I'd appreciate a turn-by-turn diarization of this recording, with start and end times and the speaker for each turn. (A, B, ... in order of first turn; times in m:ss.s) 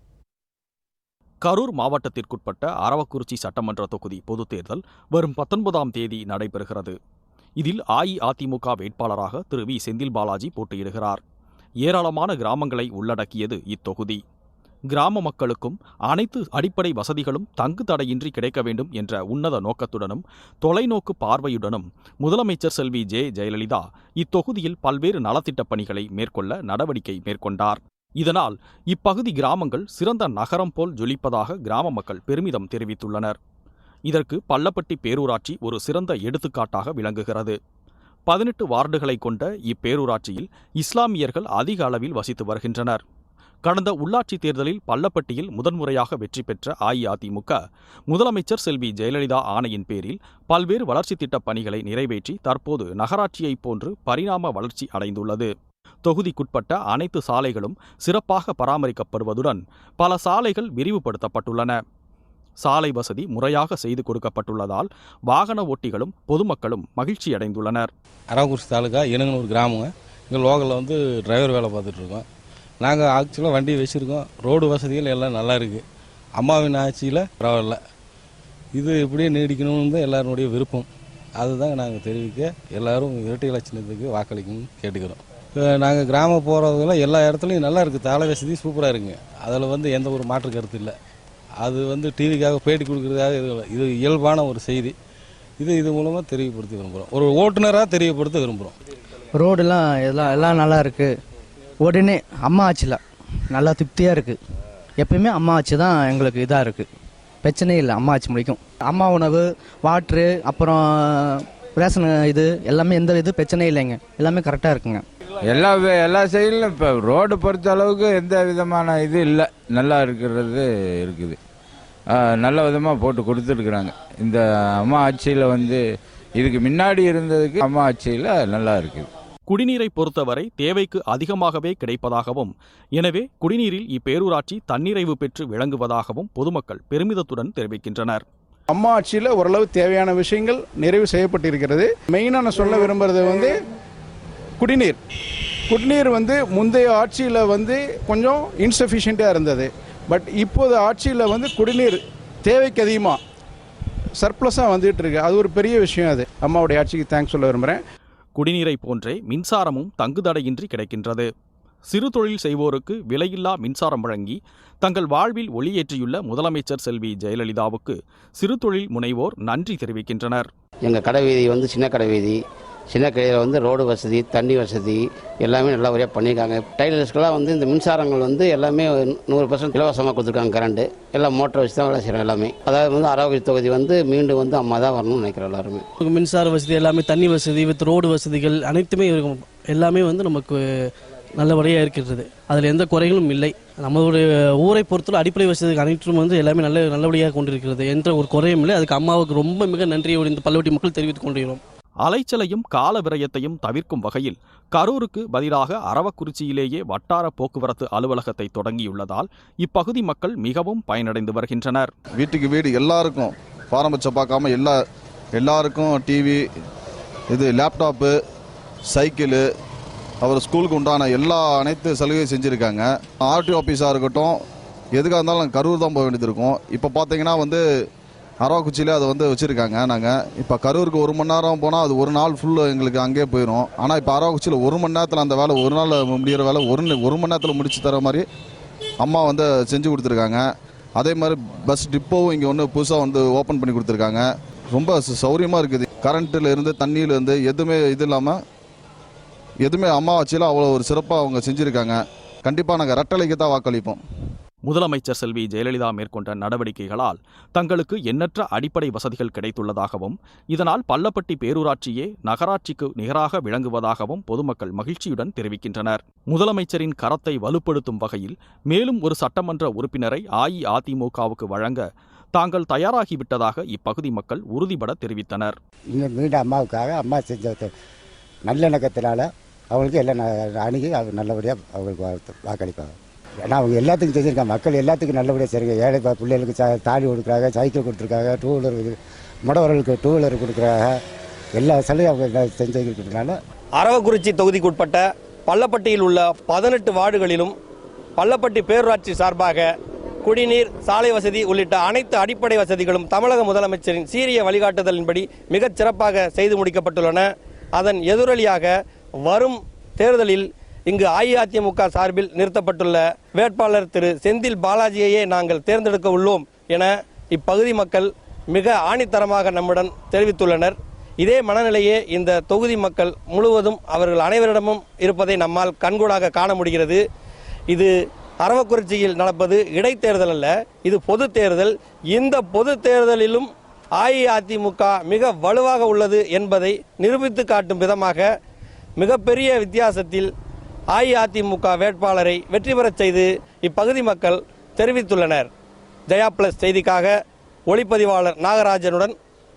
0:01.4-0:07.0 A
0:07.6-0:11.2 A
0:11.8-0:14.2 A
0:14.9-0:33.4 A
0:34.1-0:37.6 A
0:38.3-0:43.0 A
0:43.7-0:47.6 A
0:48.1-0:55.5 A
0:56.0-1:01.8 A
1:02.6-1:07.9 A
1:08.3-1:12.2 B
1:12.8-1:15.8 B
1:16.4-1:17.8 B
1:18.7-1:31.0 B
1:31.6-1:35.0 B
1:35.6-1:38.8 B
1:39.3-1:41.2 C
1:41.8-1:44.4 C
1:45.0-1:46.9 C
1:47.4-1:55.0 C
1:55.5-2:01.4 D
2:02.2-2:05.8 D
2:06.4-2:09.1 D
2:09.5-2:18.2 A
2:18.7-2:23.6 E
2:24.6-2:25.0 E
2:25.7-2:33.2 E
2:34.2-2:37.8 E
2:38.4-2:41.3 A
2:41.9-2:50.5 A
2:50.8-2:52.4 F
2:52.9-3:05.9 F
3:06.0-3:10.7 G
3:11.4-3:21.6 G
3:22.0-3:31.9 A
3:32.2-3:34.8 H
3:35.4-3:36.4 H
3:37.3-3:38.1 H
3:38.9-3:39.4 H
3:40.2-3:44.4 H
3:44.9-3:47.6 H
3:48.4-3:58.2 H
3:59.0-4:00.4 H
4:01.0-4:08.4 H
4:09.6-4:14.0 H
4:14.6-4:35.6 A
4:36.0-4:37.7 I
4:38.5-4:42.9 I
4:43.5-4:51.0 I
4:51.6-4:53.4 I
4:53.8-4:57.6 J
4:58.2-4:59.7 J
5:00.2-5:08.7 J
5:09.2-5:27.0 J
5:27.7-5:38.3 J
5:39.0-5:40.3 J
5:40.9-5:45.5 J
5:46.1-5:47.2 J
5:47.7-5:49.2 J